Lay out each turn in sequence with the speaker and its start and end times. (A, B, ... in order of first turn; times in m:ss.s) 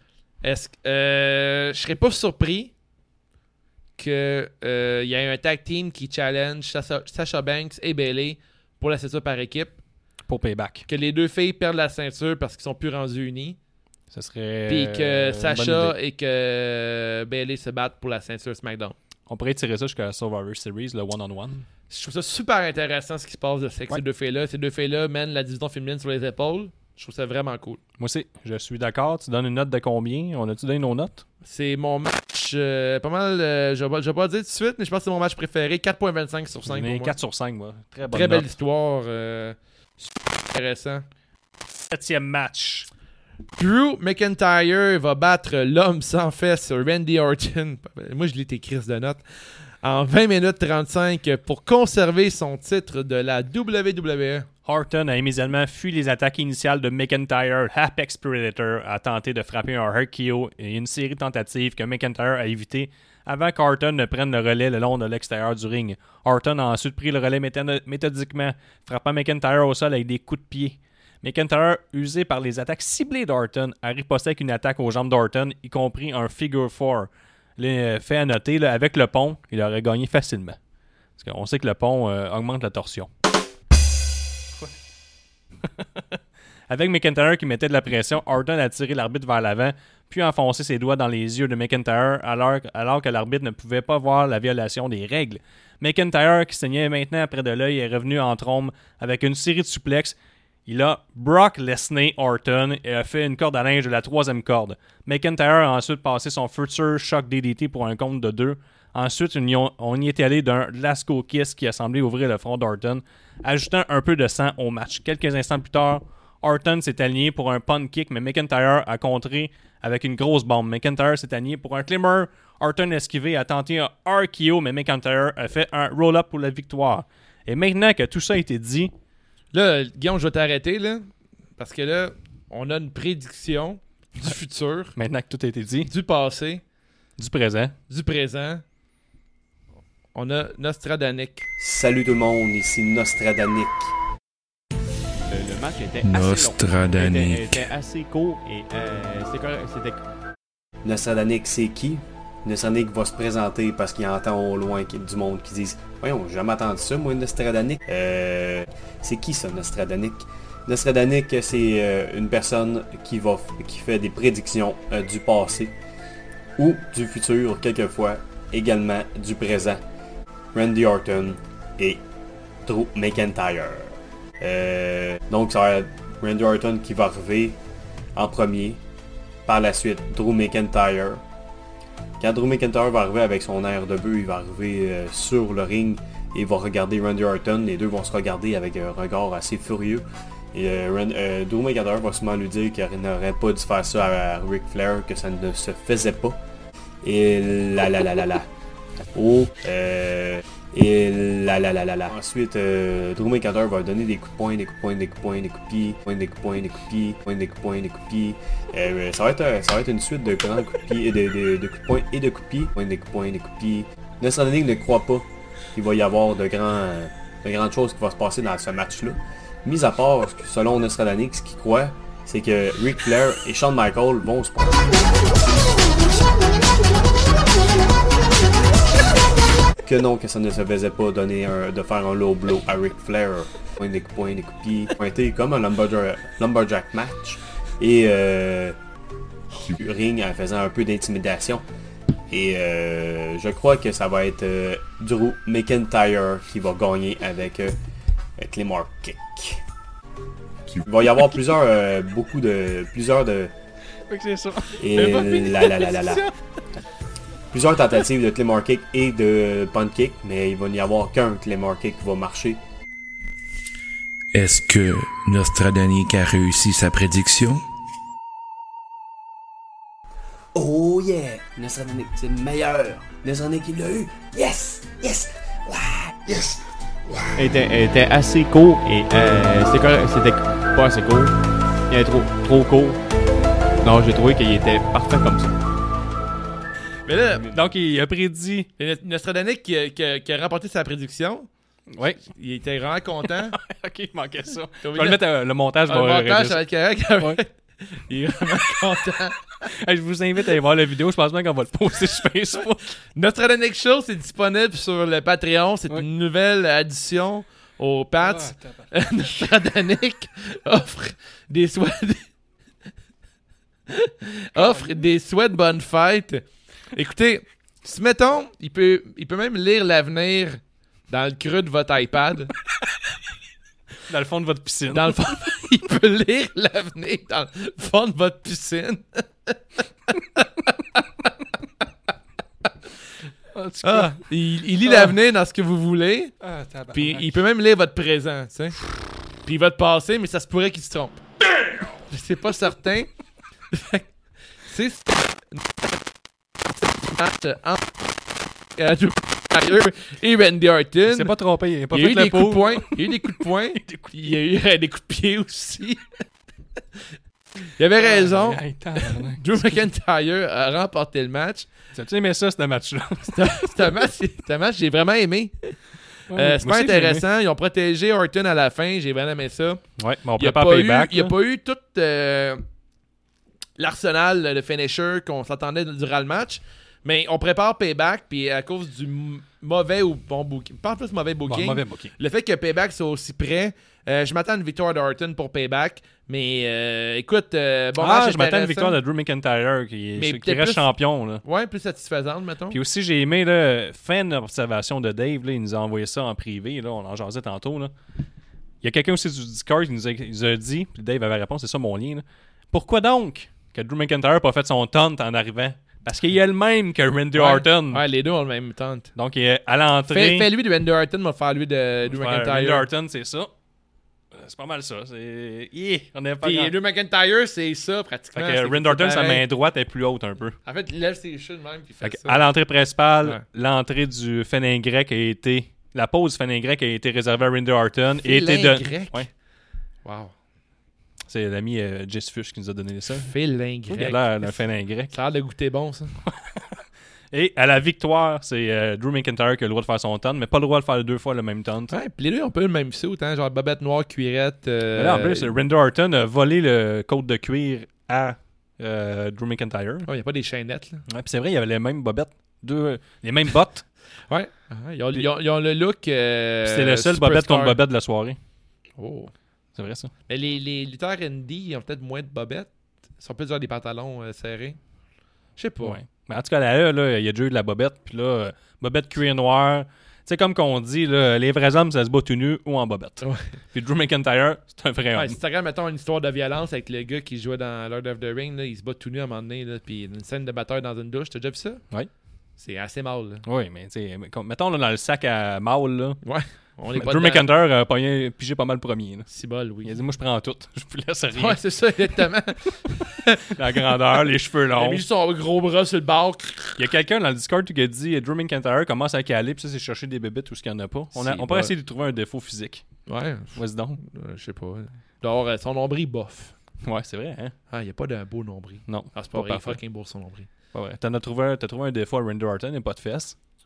0:00.4-0:02.7 A
0:04.0-0:09.8 A
0:10.3-0:10.8 B
0:10.9-0:13.6 A
0:14.1-0:16.0 B
0:14.7-0:18.9 A
0:19.3-0:21.6 B
0:21.9-0:27.8 A
0:28.0-0:31.2 B
0:31.4-0:37.1 A
0:36.7-0:38.5 B
0:38.1-0:41.0 A
0:41.9-0:42.9 B
0:43.6-0:49.2 A
0:49.8-0:54.5 A
0:54.6-1:20.6 B
1:21.2-1:23.1 B
1:25.7-2:08.9 B
2:09.5-2:14.9 A
2:15.0-2:15.9 B
2:15.9-2:16.6 A
2:17.2-2:17.7 B
2:17.9-2:18.6 A
2:20.1-2:21.4 A
2:21.6-2:23.9 C
2:25.3-2:30.0 D
2:26.0-2:27.7 E
2:30.8-2:45.7 C
2:46.6-2:49.8 C
2:50.5-2:52.0 C
2:52.6-2:57.6 C
2:58.1-2:58.8 C
2:59.4-3:01.2 C
3:02.2-3:16.4 C
3:17.0-3:18.5 C
3:19.1-3:45.1 C
3:49.8-3:58.8 C
3:59.6-4:01.6 C
4:02.3-4:07.8 C
4:08.4-4:09.6 C
4:10.8-4:13.5 C
4:14.1-4:16.2 B
4:14.8-4:16.2 C
4:17.5-4:22.6 C
4:24.3-4:27.6 E
4:30.5-4:37.3 C
4:37.4-4:43.0 D
4:43.8-4:45.6 D
4:47.1-4:47.5 A
4:47.5-4:48.7 B
4:48.8-4:51.5 A
4:51.9-4:52.2 B
4:52.1-4:53.6 A
4:53.2-4:56.6 B
4:54.8-4:55.2 A
4:55.9-4:59.6 A
4:58.5-4:58.9 B
4:59.6-5:02.9 B
5:03.1-5:12.2 A
5:08.2-5:08.9 B
5:13.9-5:22.5 A
5:14.5-5:15.0 B
5:24.1-5:25.3 B
5:24.9-5:31.3 A
5:33.5-5:34.2 B
5:33.8-5:36.3 A
5:34.8-5:35.1 B
5:36.4-5:37.3 B
5:36.9-5:38.8 A
5:39.4-5:41.2 A
5:41.5-5:42.0 B
5:42.1-5:43.1 A
5:43.7-5:44.0 A
5:44.6-5:45.7 A
5:47.0-5:48.0 A
5:48.8-5:51.3 A
5:51.1-5:54.1 B
5:51.9-5:56.1 A
5:57.8-6:01.7 A
5:58.0-5:59.8 B
6:01.9-6:04.0 B
6:03.3-6:05.8 A
6:06.3-6:07.2 B
6:06.3-6:09.8 A
6:10.0-6:11.3 B
6:10.4-6:12.6 A
6:13.8-6:29.0 A
6:21.4-6:22.1 B
6:28.0-6:31.4 B
6:30.2-6:30.9 A
6:31.4-6:32.8 A
6:32.7-6:37.9 B
6:38.8-6:48.0 B
6:47.3-6:49.1 A
6:49.1-6:50.5 B
6:50.1-6:52.9 A
6:52.0-6:53.5 B
6:54.3-6:56.7 B
6:56.4-6:59.4 A
6:58.3-7:00.6 B
7:00.6-7:02.5 A
7:02.0-7:09.3 B
7:08.2-7:09.2 A
7:10.0-7:10.3 A
7:11.3-7:13.3 B
7:13.2-7:16.1 A
7:13.9-7:15.1 B
7:16.2-7:21.9 B
7:21.9-7:25.5 A
7:24.9-7:30.1 B
7:30.0-7:31.0 A
7:31.1-7:33.8 B
7:34.3-7:37.8 A
7:36.6-7:38.4 B
7:39.0-7:39.3 A
7:39.7-7:40.1 B
7:40.3-7:44.8 A
7:45.6-7:46.0 A
7:45.8-7:55.4 B
7:53.2-7:53.5 A
7:55.1-8:01.8 A
8:02.6-8:03.4 A
8:03.4-8:06.2 B
8:06.2-8:07.4 A
8:06.9-8:09.3 B
8:09.3-8:10.0 A
8:09.8-8:11.6 B
8:11.3-8:13.5 A
8:13.5-8:15.0 B
8:14.7-8:16.9 A
8:16.8-8:22.8 B
8:21.1-8:21.7 A
8:23.1-8:26.5 A
8:23.5-8:24.0 B
8:26.8-8:27.5 B
8:27.7-8:30.5 A
8:28.9-8:29.8 B
8:30.7-8:33.4 B